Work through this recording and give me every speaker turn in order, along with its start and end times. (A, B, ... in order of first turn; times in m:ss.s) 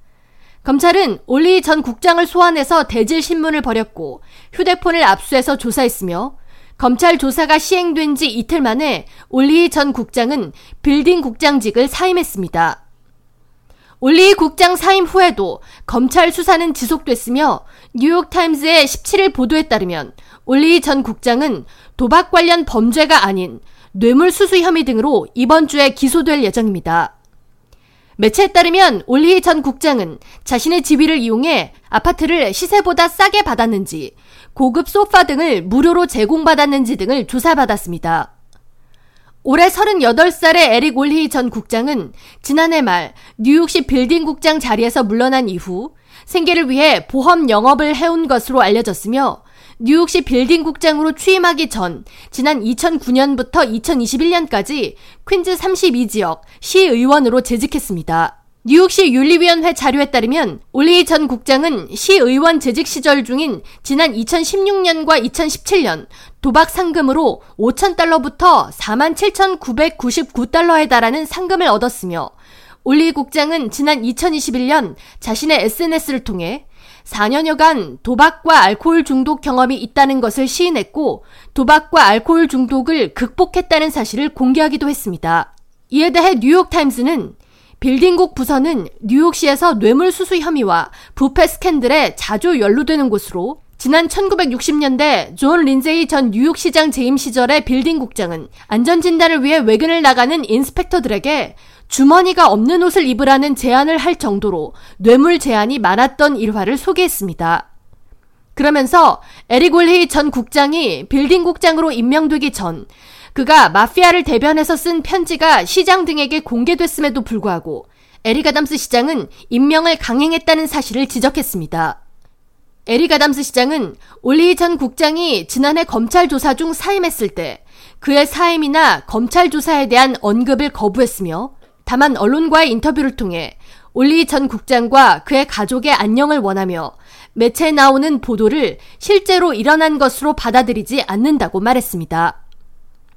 0:00.6-0:12.8 A
0:14.0-0:27.1 A
0:28.2-0:38.3 A
0:39.4-1:12.3 A
1:12.8-1:47.7 A
1:48.6-2:02.0 A
2:02.9-2:22.4 A